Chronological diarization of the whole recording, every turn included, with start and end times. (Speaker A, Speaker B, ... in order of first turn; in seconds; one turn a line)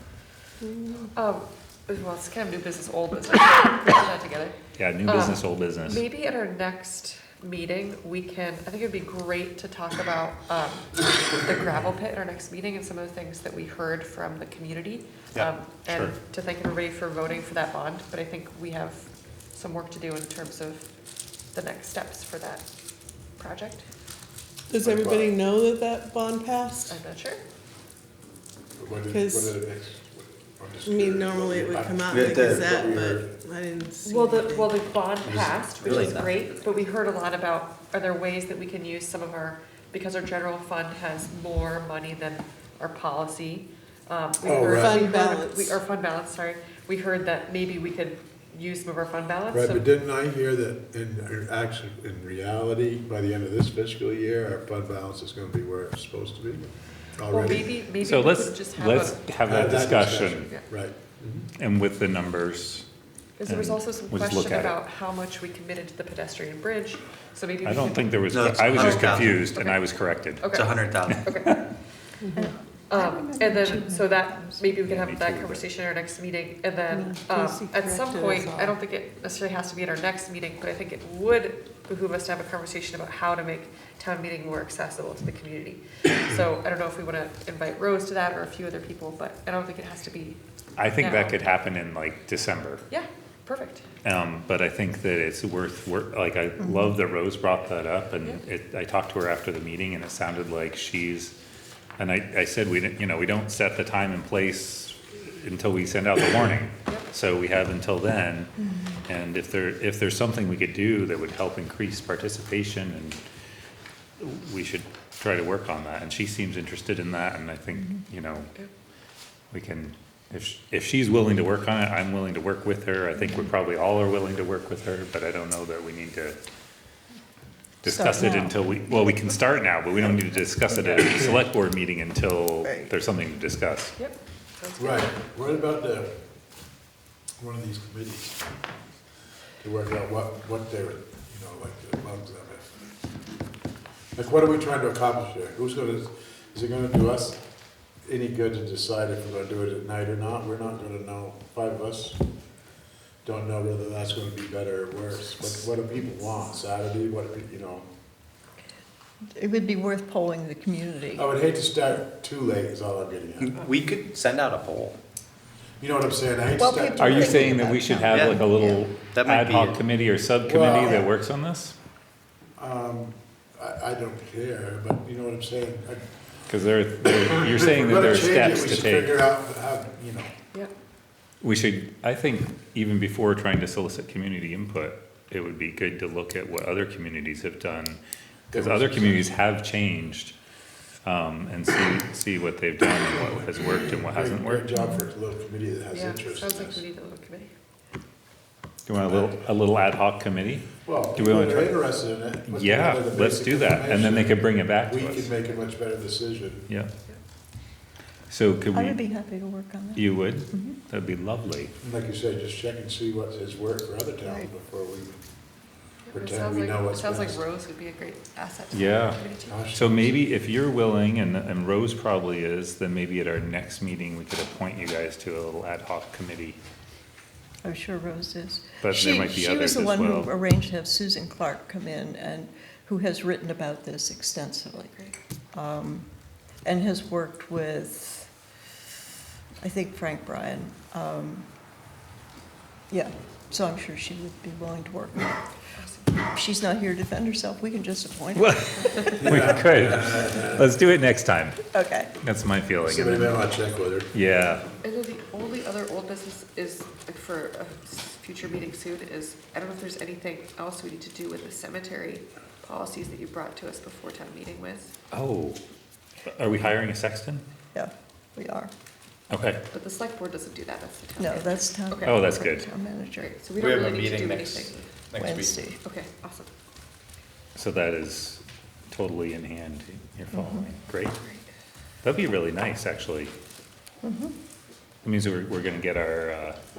Speaker A: 0.6-1.1
Speaker B: 1.1-20.9
Speaker C: 4.8-6.0
Speaker C: 15.9-16.1
Speaker B: 21.5-22.6
Speaker B: 23.4-23.8
Speaker A: 24.7-27.0
Speaker D: 24.8-25.3
Speaker B: 26.8-27.4
Speaker D: 28.8-33.3
Speaker A: 29.1-29.6
Speaker A: 30.8-34.7
Speaker E: 32.1-32.7
Speaker B: 34.0-49.9
Speaker E: 35.2-36.6
Speaker A: 44.5-45.8
Speaker D: 44.5-44.9
Speaker D: 49.5-57.7
Speaker B: 57.3-59.4
Speaker C: 58.0-60.5
Speaker D: 59.5-61.0
Speaker C: 61.6-62.8
Speaker B: 63.4-68.2
Speaker C: 63.5-64.8
Speaker C: 67.6-71.4
Speaker E: 68.3-69.5
Speaker B: 68.7-69.8
Speaker B: 70.4-71.6
Speaker E: 70.5-71.3
Speaker F: 72.3-74.7
Speaker B: 72.9-90.4
Speaker C: 74.8-75.6
Speaker F: 76.9-78.8
Speaker C: 90.8-92.8
Speaker B: 91.0-91.3
Speaker B: 92.9-94.0
Speaker C: 94.0-101.3
Speaker F: 96.6-96.9
Speaker C: 102.0-108.5
Speaker C: 109.0-113.2
Speaker C: 114.2-118.5
Speaker C: 119.5-126.4
Speaker C: 127.8-133.9
Speaker F: 127.8-129.1
Speaker F: 132.6-132.9
Speaker B: 134.0-135.1
Speaker D: 134.8-136.1
Speaker D: 137.4-138.4
Speaker D: 139.6-142.6
Speaker D: 144.1-147.4
Speaker D: 148.0-152.2
Speaker D: 153.2-157.8
Speaker F: 159.4-161.3
Speaker D: 161.1-163.6
Speaker E: 163.4-165.0
Speaker D: 165.8-167.7
Speaker F: 166.6-168.8
Speaker C: 167.0-171.7
Speaker E: 168.1-169.8
Speaker D: 170.4-171.1
Speaker F: 170.7-171.1
Speaker D: 172.6-176.0
Speaker C: 176.5-179.2
Speaker D: 177.2-180.3
Speaker C: 181.4-190.3
Speaker D: 188.5-189.3
Speaker C: 191.0-194.7
Speaker D: 193.3-196.8
Speaker F: 194.7-195.0
Speaker B: 195.9-197.5
Speaker C: 198.9-201.8
Speaker D: 199.0-199.3
Speaker D: 200.8-206.7
Speaker C: 202.5-205.3
Speaker C: 208.3-209.0
Speaker F: 208.7-210.8
Speaker C: 209.9-211.7
Speaker D: 211.8-215.2
Speaker B: 216.1-219.6
Speaker D: 216.1-217.4
Speaker C: 218.7-219.2
Speaker D: 219.5-220.0
Speaker C: 219.7-226.6
Speaker F: 227.6-234.9
Speaker C: 228.8-230.3
Speaker B: 234.9-235.1
Speaker F: 235.5-236.1
Speaker F: 236.6-238.3
Speaker F: 239.6-241.4
Speaker F: 242.9-245.4
Speaker B: 245.8-246.2
Speaker F: 246.3-249.2
Speaker C: 248.3-251.7
Speaker D: 249.2-250.6
Speaker F: 251.7-252.1
Speaker C: 252.2-253.4
Speaker D: 252.8-254.1
Speaker C: 254.1-254.7
Speaker B: 254.8-264.9
Speaker C: 265.1-265.6
Speaker C: 266.3-267.4
Speaker F: 267.7-268.7
Speaker C: 269.3-269.6
Speaker B: 269.7-272.2
Speaker F: 271.2-273.3
Speaker C: 272.0-272.7
Speaker B: 273.1-274.9
Speaker E: 273.6-275.7
Speaker F: 275.2-275.8
Speaker B: 275.8-276.5
Speaker C: 277.6-281.1
Speaker F: 280.3-280.6
Speaker B: 281.1-281.5
Speaker C: 282.0-283.3
Speaker F: 284.0-284.3
Speaker C: 285.0-286.6